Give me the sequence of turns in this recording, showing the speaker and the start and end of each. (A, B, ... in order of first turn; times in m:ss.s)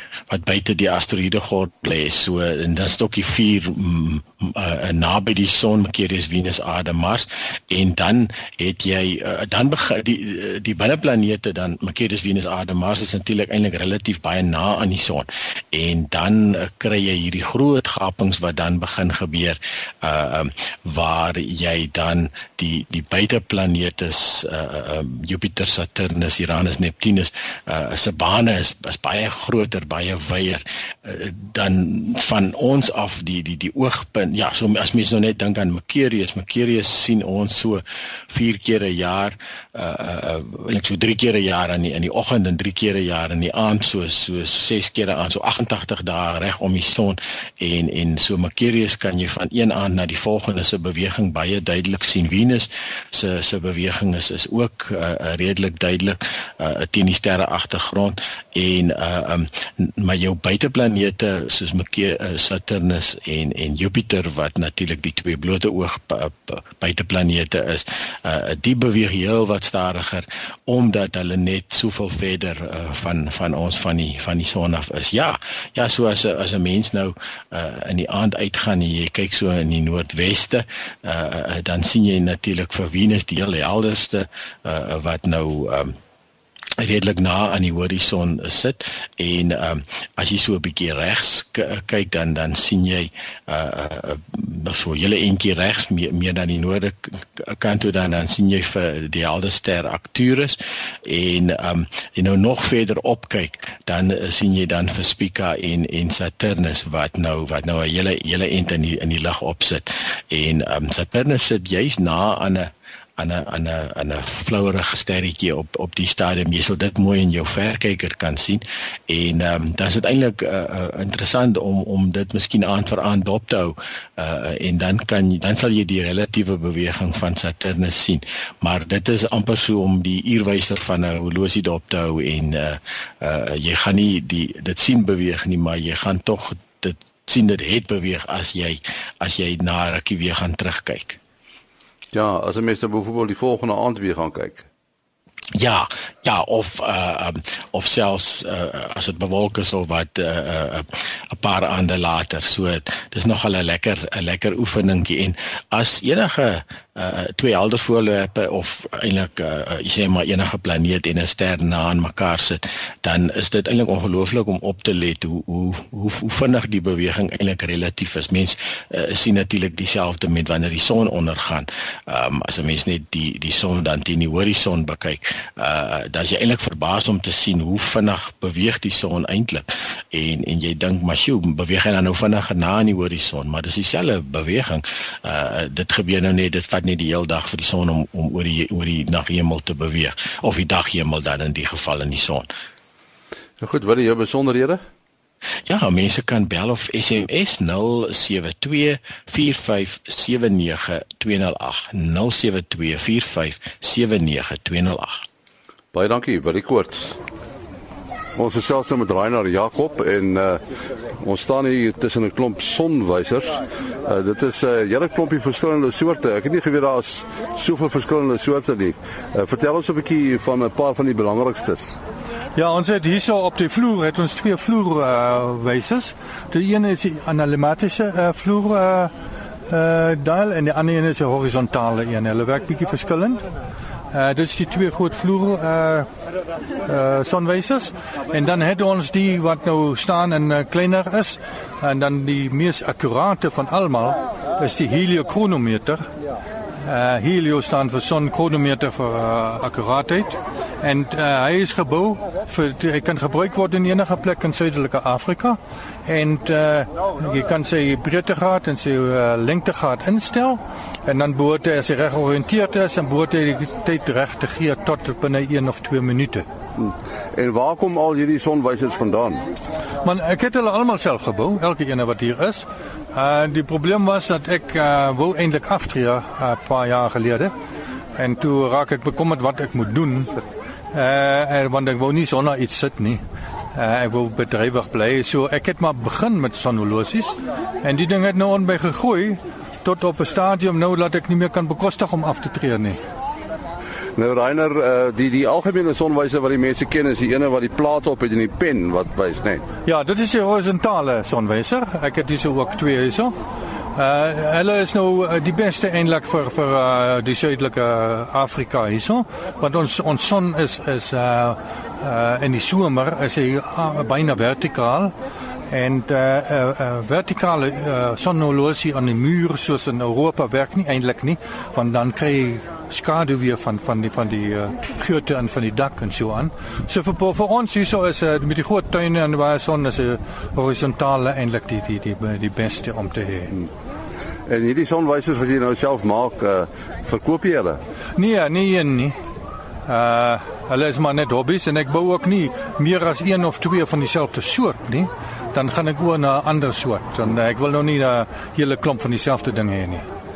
0:00.3-1:26.0 A
1:26.8-2:21.2 A
2:22.1-2:24.7 B
2:25.6-3:12.5 A
3:13.6-3:14.8 B
3:15.7-3:25.2 A
3:25.9-3:27.2 B
3:28.4-3:30.6 B
3:31.2-3:42.0 B
3:42.5-3:49.1 C
3:49.7-3:53.4 C
3:54.1-3:56.1 C
3:56.8-4:06.0 C
4:06.8-4:26.4 C
4:26.8-4:29.4 B
4:30.0-4:37.5 C
4:38.2-4:40.3 C
4:40.9-4:43.2 C
4:43.7-4:53.0 C
4:54.2-4:59.6 B
4:59.9-5:03.3 C
5:03.9-5:15.1 C
5:15.7-5:33.5 C
5:34.5-5:37.8 B
5:38.2-5:39.2 C
5:39.9-5:50.0 C